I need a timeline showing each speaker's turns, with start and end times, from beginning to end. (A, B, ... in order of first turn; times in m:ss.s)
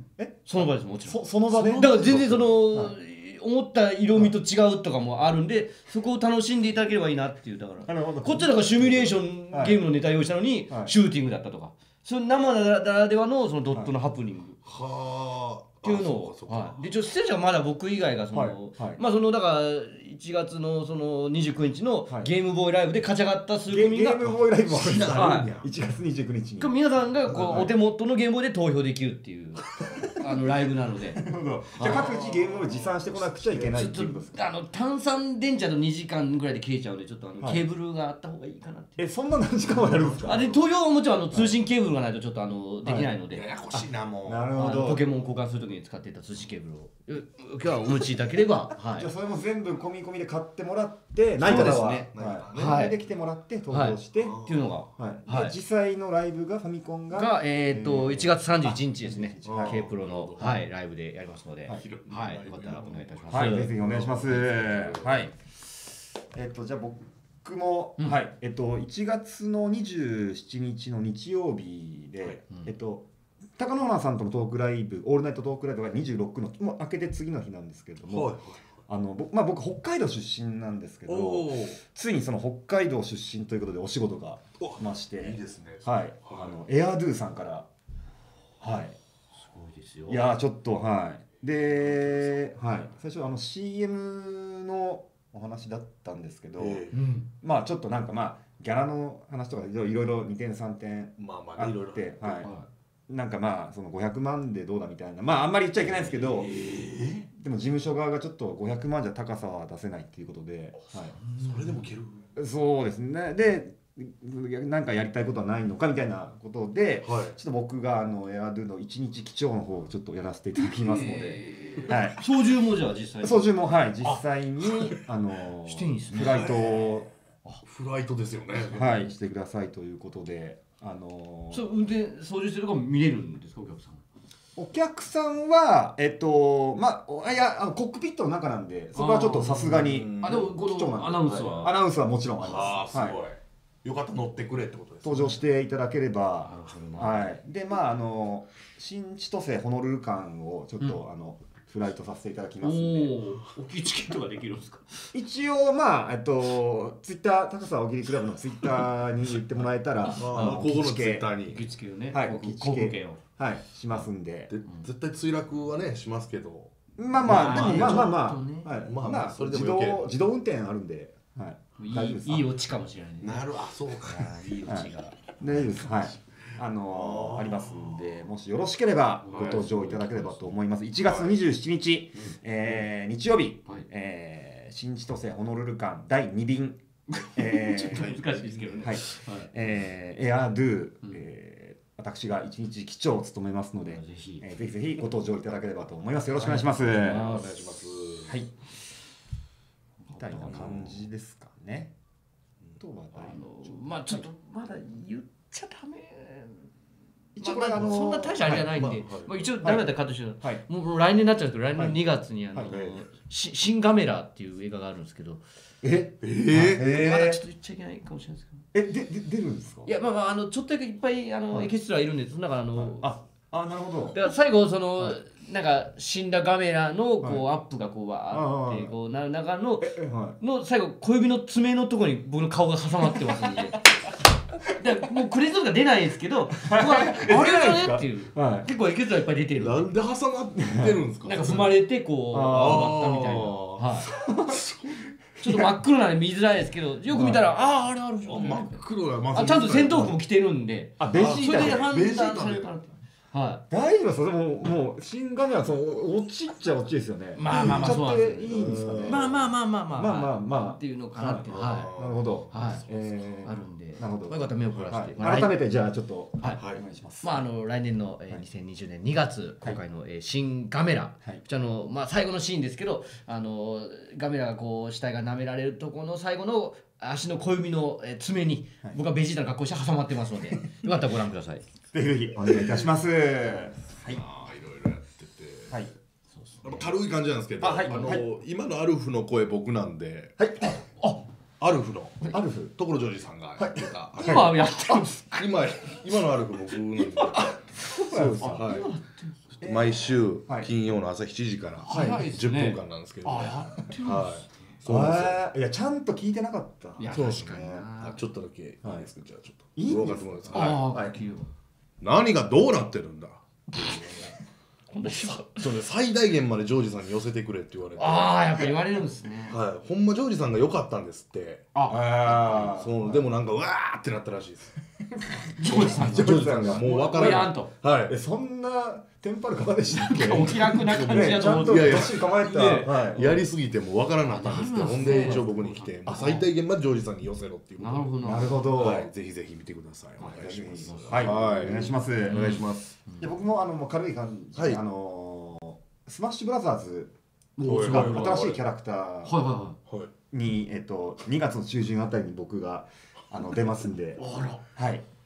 0:00.2-0:03.0 A
0:00.4-0:14.6 B
0:01.6-0:02.5 C
0:07.9-0:09.8 A
0:10.7-0:11.0 A
0:14.6-0:16.8 C
0:15.8-0:24.2 B
0:18.3-0:19.0 A
0:23.7-0:26.8 A
0:24.6-0:25.7 C
0:25.1-0:25.5 B
0:26.6-0:31.2 B
0:27.3-0:27.7 C
0:27.3-0:27.7 A
0:31.2-0:34.4 A
0:31.8-0:33.5 C
0:31.8-0:32.1 B
0:33.5-0:39.0 B
0:39.0-0:40.5 A
0:39.7-0:40.6 C
0:40.2-0:43.8 B
0:42.8-0:43.1 A
0:43.3-0:44.5 C
0:44.2-0:45.0 A
0:44.6-0:49.1 B
0:48.8-0:54.4 A
0:51.4-0:52.9 C
0:51.4-0:53.0 B
0:53.7-0:55.6 B
0:54.2-0:54.8 C
0:55.0-0:59.8 A
0:57.1-1:03.7 B
0:59.4-1:00.6 C
1:01.7-1:05.3 C
1:03.3-1:05.3 A
1:06.3-1:18.3 A
1:18.0-1:18.7 C
1:18.9-1:27.7 A
1:21.1-1:21.8 C
1:24.6-1:26.6 C
1:28.6-1:29.0 A
1:29.4-1:30.2 B
1:30.1-1:36.8 A
1:31.8-1:32.4 C
1:36.6-1:37.0 C
1:36.9-1:37.3 B
1:37.4-1:42.5 A
1:41.2-1:42.5 C
1:42.4-1:42.7 B
1:43.1-1:46.5 A
1:45.9-1:47.3 C
1:47.3-1:51.2 A
1:51.2-1:51.9 B
1:51.4-1:52.3 C
1:52.4-2:02.2 A
1:57.0-1:57.4 C
2:00.6-2:03.5 B
2:03.2-2:07.1 A
2:04.1-2:05.0 C
2:05.7-2:06.5 B
2:06.1-2:07.0 C
2:07.6-2:08.9 C
2:08.6-2:11.6 A
2:08.8-2:09.0 B
2:11.5-2:14.0 B
2:14.6-2:23.2 A
2:18.9-2:21.8 B
2:19.7-2:20.6 C
2:21.3-2:21.7 C
2:22.4-2:25.4 C
2:22.4-2:22.8 B
2:25.0-2:33.2 A
2:26.4-2:27.4 B
2:32.6-2:34.9 B
2:35.1-2:41.3 A
2:40.0-2:40.6 B
2:40.1-2:41.6 C
2:41.4-2:43.2 B
2:42.1-2:44.5 A
2:44.5-2:48.2 C
2:47.0-2:52.5 A
2:47.2-2:48.7 B
2:48.8-2:50.1 C
2:51.8-2:55.2 B
2:53.2-2:54.8 C
2:54.7-3:06.8 A
2:55.5-2:56.2 C
2:56.9-2:58.2 C
2:59.2-3:00.5 B
2:59.3-2:59.8 C
3:01.0-3:01.4 C
3:02.2-3:02.8 B
3:07.1-3:09.5 B
3:07.4-3:08.2 A
3:07.9-3:08.9 C
3:08.8-3:17.3 A
3:13.8-3:14.4 B
3:16.3-3:18.4 C
3:17.0-3:17.8 B
3:20.1-3:20.7 B
3:20.1-3:21.9 A
3:20.5-3:21.1 C
3:22.8-3:24.2 A
3:23.1-3:26.6 B
3:27.4-3:28.7 A
3:27.4-3:35.4 B
3:28.7-3:29.4 C
3:29.6-3:29.9 A
3:32.7-3:33.0 C
3:35.8-3:37.4 A
3:36.2-3:36.8 C
3:36.7-3:38.6 B
3:38.7-3:39.9 A
3:39.8-3:43.1 B
3:42.8-3:44.2 A
3:44.1-3:53.8 B
3:47.2-3:47.5 A
3:48.3-3:49.0 A
3:49.8-3:50.4 A
3:54.8-3:59.9 B
3:56.6-3:58.7 A
3:59.6-4:01.8 C
4:00.6-4:01.0 A
4:01.2-4:04.1 B
4:02.3-4:02.9 A
4:02.5-4:05.1 C
4:04.1-4:04.6 A
4:05.4-4:13.6 B
4:07.1-4:07.4 A
4:08.2-4:10.2 C
4:11.0-4:11.9 A
4:11.1-4:12.7 C
4:13.7-4:19.2 A
4:17.4-4:21.9 B
4:17.5-4:17.8 C
4:18.5-4:19.5 C
4:19.9-4:27.4 A
4:21.5-4:23.5 C
4:22.5-4:22.8 B
4:23.4-4:25.6 B
4:24.7-4:25.4 C
4:27.2-4:41.6 B
4:41.9-4:44.2 A
4:44.1-4:45.8 C
4:46.3-4:46.9 B
4:46.6-4:50.4 C
4:47.6-4:48.2 A
4:47.9-4:48.2 B
4:50.4-4:50.8 A
4:51.0-4:51.2 B
4:51.6-4:54.7 C
4:52.3-4:52.8 A
4:53.6-4:55.1 A
4:54.2-4:55.5 B
4:55.4-4:57.6 C
4:56.7-4:59.4 B
4:57.9-4:58.7 A
4:58.2-4:58.9 C
4:59.6-5:05.5 C
4:59.6-5:00.7 A
5:01.8-5:04.5 B
5:01.9-5:02.3 A
5:04.9-5:07.9 A
5:07.0-5:08.2 B
5:07.1-5:07.4 C
5:08.0-5:10.8 C
5:09.8-5:11.2 A
5:10.5-5:11.5 B
5:12.0-5:14.2 C
5:13.7-5:14.4 B
5:14.9-5:15.8 B
5:15.6-5:18.4 C
5:18.0-5:19.6 B
5:19.5-5:24.8 C
5:21.7-5:22.0 B
5:21.9-5:23.3 A
5:25.2-5:27.4 A
5:25.6-5:27.7 B
5:25.6-5:28.2 C
5:28.1-5:33.3 A
5:29.9-5:33.4 B
5:30.5-5:38.2 C
5:34.2-5:36.4 B
5:34.9-5:35.4 A
5:36.1-5:36.4 A
5:37.8-5:38.9 B
5:38.2-5:39.1 A
5:38.7-5:43.0 C
5:40.2-5:43.3 B
5:40.2-5:42.6 A
5:43.2-5:47.1 A
5:44.6-5:44.8 C
5:47.6-5:48.6 B
5:47.6-5:48.6 C
5:47.7-5:49.4 A
5:49.2-5:49.8 B
5:50.3-5:54.2 A
5:54.2-5:54.6 B
5:54.8-5:55.0 A